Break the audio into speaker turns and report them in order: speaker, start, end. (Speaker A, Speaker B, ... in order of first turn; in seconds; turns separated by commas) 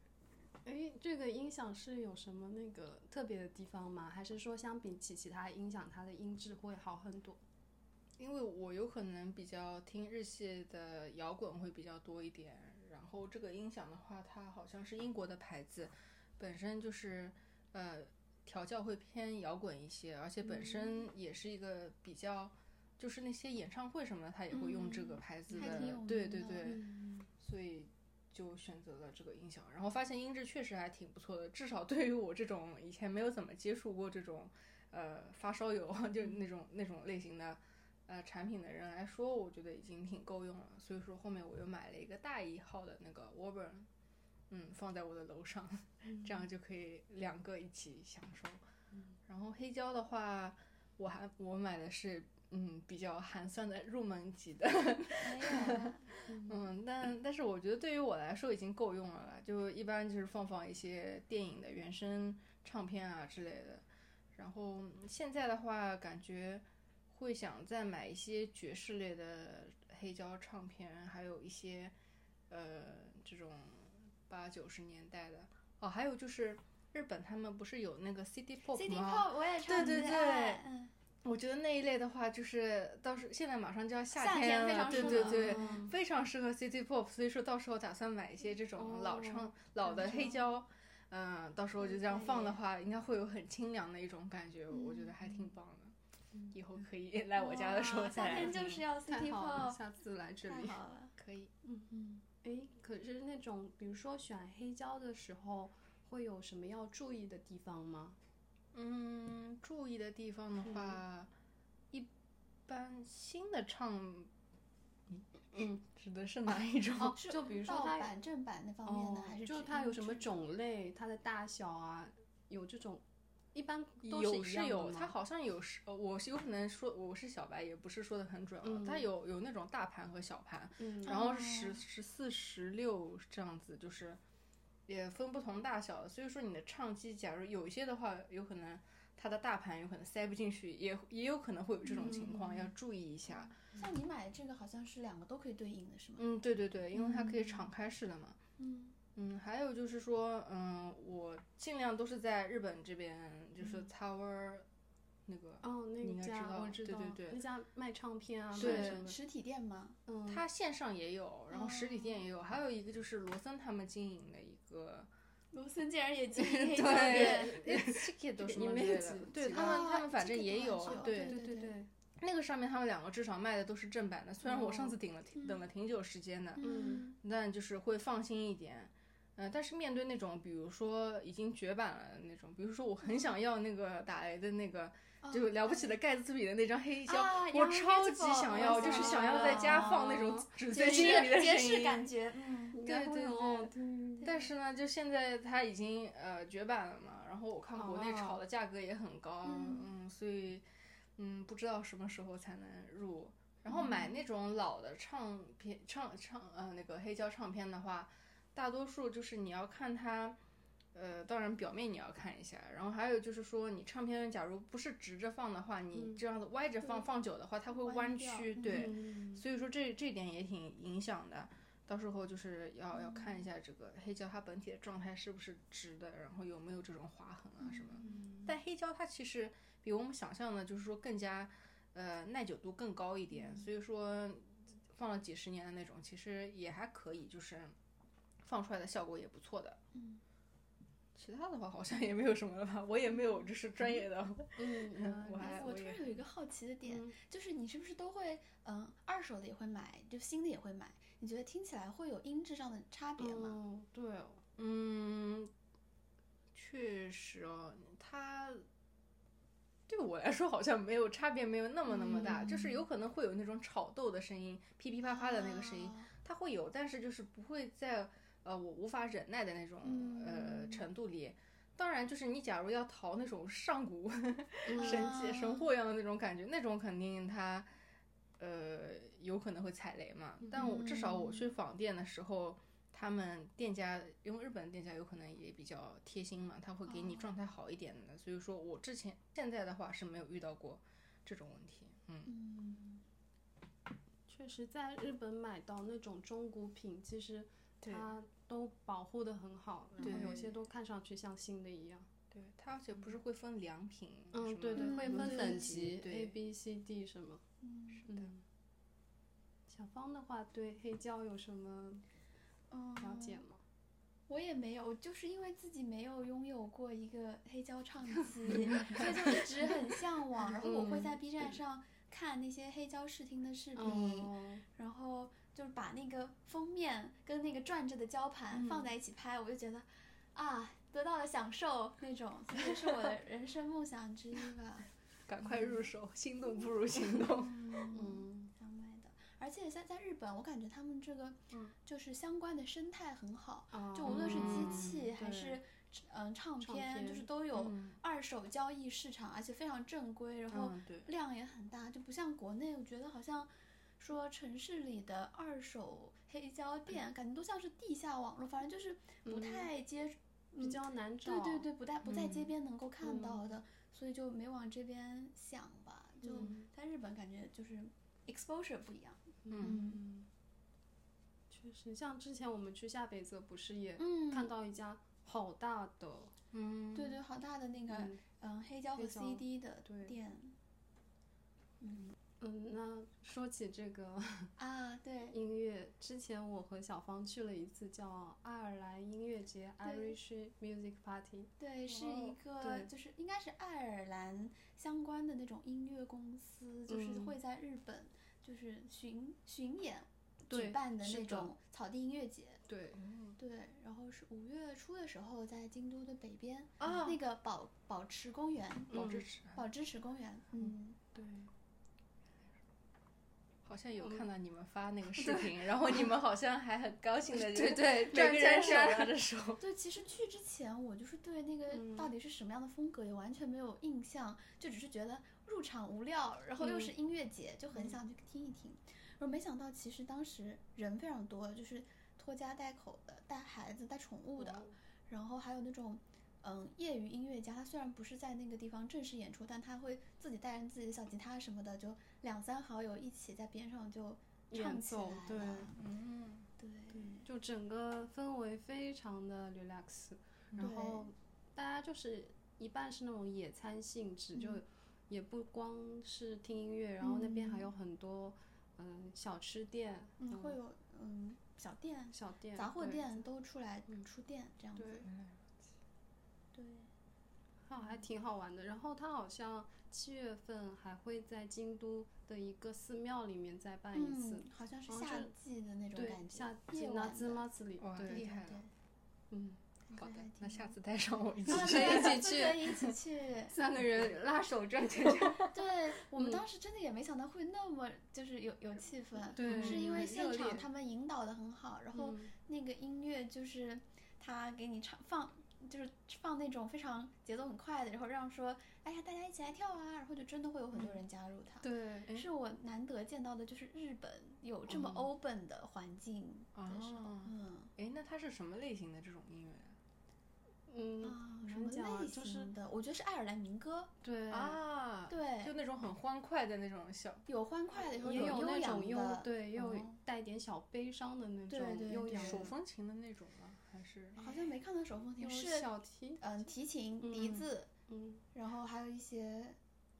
Speaker A: 0.6-7.4, Speaker B: 8.2-43.9, Speaker C: 24.5-26.8, Speaker A: 25.5-25.9, Speaker A: 26.6-27.3, Speaker B: 44.5-48.6, Speaker B: 49.2-71.9, Speaker C: 55.2-56.0, Speaker A: 56.3-56.7, Speaker B: 72.5-80.6, Speaker C: 78.7-80.9, Speaker B: 81.2-95.9, Speaker C: 84.1-85.8, Speaker A: 84.9-85.9, Speaker A: 88.8-90.3, Speaker C: 89.8-90.4, Speaker C: 91.8-92.6, Speaker C: 94.7-95.1, Speaker B: 96.5-98.8, Speaker C: 97.4-99.8, Speaker A: 99.1-100.8, Speaker C: 100.4-101.1, Speaker B: 101.2-101.5, Speaker A: 101.6-108.2, Speaker C: 101.9-102.2, Speaker B: 108.7-111.3, Speaker A: 110.6-111.0, Speaker B: 112.7-114.3, Speaker B: 115.1-117.2, Speaker A: 117.0-118.1, Speaker C: 117.1-120.3, Speaker A: 118.8-123.0, Speaker A: 123.5-125.1, Speaker B: 124.0-134.2, Speaker A: 128.6-129.1, Speaker A: 130.8-131.2, Speaker C: 131.0-131.8, Speaker B: 134.9-143.6, Speaker A: 141.9-142.7, Speaker C: 143.6-146.2, Speaker B: 146.2-148.4, Speaker A: 147.0-147.4, Speaker C: 148.6-148.9, Speaker B: 149.1-154.7, Speaker B: 155.2-157.4, Speaker A: 155.6-159.2, Speaker B: 158.5-159.1, Speaker C: 158.5-160.0, Speaker A: 160.1-160.4, Speaker B: 160.3-165.1, Speaker C: 161.5-162.2, Speaker C: 165.5-167.6, Speaker A: 166.3-169.9, Speaker B: 166.8-171.4, Speaker C: 169.5-171.7, Speaker A: 170.8-171.9, Speaker B: 172.2-192.1, Speaker A: 174.4-174.9, Speaker C: 175.3-175.6, Speaker C: 176.6-177.2, Speaker A: 176.6-177.0, Speaker C: 185.2-185.9, Speaker C: 187.1-190.1, Speaker A: 188.5-191.3, Speaker C: 190.7-194.4, Speaker A: 192.7-194.3, Speaker B: 194.2-210.4, Speaker A: 197.8-198.4, Speaker C: 199.4-199.9, Speaker C: 203.7-204.0, Speaker A: 203.8-204.0, Speaker B: 210.9-237.7, Speaker A: 215.9-216.2, Speaker C: 217.7-218.9, Speaker A: 218.6-219.4, Speaker C: 227.7-228.2, Speaker A: 228.0-228.4, Speaker B: 238.4-239.8, Speaker C: 239.9-240.2, Speaker B: 241.1-246.1, Speaker A: 244.6-245.6, Speaker C: 245.4-253.6, Speaker A: 246.8-247.1, Speaker A: 253.2-254.4, Speaker B: 254.6-255.5, Speaker B: 256.5-258.6, Speaker B: 259.9-277.7, Speaker A: 262.1-262.6, Speaker C: 262.1-262.5, Speaker C: 265.1-266.1, Speaker A: 269.8-270.8, Speaker A: 274.7-275.1, Speaker C: 274.7-275.6, Speaker B: 278.4-292.3, Speaker A: 280.4-280.7, Speaker C: 280.5-281.5, Speaker C: 286.9-287.3, Speaker C: 292.2-293.0, Speaker A: 294.3-302.1, Speaker B: 297.8-298.1, Speaker B: 300.0-300.6, Speaker C: 300.0-300.4, Speaker B: 302.3-306.4, Speaker A: 304.3-307.4, Speaker C: 304.7-305.7, Speaker C: 307.6-308.0, Speaker B: 308.0-308.3, Speaker A: 308.1-308.4, Speaker A: 309.7-312.0, Speaker C: 312.7-313.4, Speaker A: 313.0-313.6, Speaker C: 314.3-334.9, Speaker A: 318.4-319.5, Speaker A: 320.6-321.2, Speaker A: 323.7-324.6, Speaker A: 328.5-328.9, Speaker B: 335.3-337.6, Speaker C: 337.4-370.0, Speaker A: 337.9-338.5, Speaker A: 343.7-345.6, Speaker B: 344.1-345.1, Speaker A: 346.6-347.3, Speaker B: 347.5-348.0, Speaker B: 350.7-351.1, Speaker A: 359.2-359.7, Speaker A: 360.6-361.7, Speaker A: 363.0-363.4, Speaker A: 366.2-366.7, Speaker A: 369.4-370.3, Speaker B: 369.5-369.8, Speaker A: 371.5-376.3, Speaker C: 374.0-374.5, Speaker B: 376.5-377.2, Speaker C: 376.9-380.6, Speaker A: 377.9-378.2, Speaker A: 378.9-380.1, Speaker C: 381.8-382.1, Speaker A: 382.4-384.5, Speaker C: 384.6-385.4, Speaker A: 385.3-392.9, Speaker C: 389.8-390.2, Speaker C: 391.6-402.6, Speaker A: 396.9-397.4, Speaker A: 400.5-401.5, Speaker A: 402.7-403.0, Speaker B: 402.9-403.4, Speaker C: 403.4-411.0, Speaker B: 406.8-407.2, Speaker A: 408.9-409.2, Speaker B: 408.9-409.6, Speaker A: 410.6-411.5, Speaker B: 413.6-419.6, Speaker A: 414.0-414.2, Speaker A: 415.1-416.1, Speaker A: 417.3-419.1, Speaker C: 419.6-445.7, Speaker A: 421.7-422.1, Speaker A: 426.6-426.9, Speaker A: 434.4-434.7, Speaker A: 444.5-445.7, Speaker B: 445.8-446.5, Speaker C: 446.6-447.2, Speaker A: 446.9-460.6, Speaker C: 450.6-451.1, Speaker C: 454.4-454.6, Speaker C: 457.0-457.7, Speaker C: 460.2-465.1, Speaker A: 462.1-463.2, Speaker A: 464.8-465.1, Speaker B: 465.1-465.4, Speaker C: 466.5-466.9, Speaker A: 467.6-475.3, Speaker C: 473.9-477.5, Speaker A: 475.9-478.2, Speaker B: 477.8-478.6, Speaker C: 478.1-478.7, Speaker A: 479.3-479.6, Speaker C: 479.9-480.7, Speaker B: 479.9-482.8, Speaker A: 481.4-482.7, Speaker C: 481.5-483.5, Speaker A: 483.5-485.5, Speaker B: 485.0-485.3, Speaker C: 485.4-507.7, Speaker A: 486.1-486.4, Speaker A: 489.3-490.6, Speaker B: 489.4-490.1, Speaker A: 491.9-492.3, Speaker A: 501.6-502.1, Speaker B: 504.7-505.1, Speaker B: 506.5-509.8, Speaker A: 510.7-512.5, Speaker C: 511.0-513.9, Speaker A: 514.0-514.6, Speaker B: 514.3-517.2, Speaker C: 515.1-515.5, Speaker C: 517.3-520.0, Speaker A: 518.0-522.5, Speaker B: 518.1-518.4, Speaker C: 521.5-522.5, Speaker B: 522.1-524.2, Speaker C: 524.1-525.7, Speaker A: 525.2-526.2, Speaker C: 526.2-527.7, Speaker A: 527.0-528.2, Speaker C: 528.3-529.6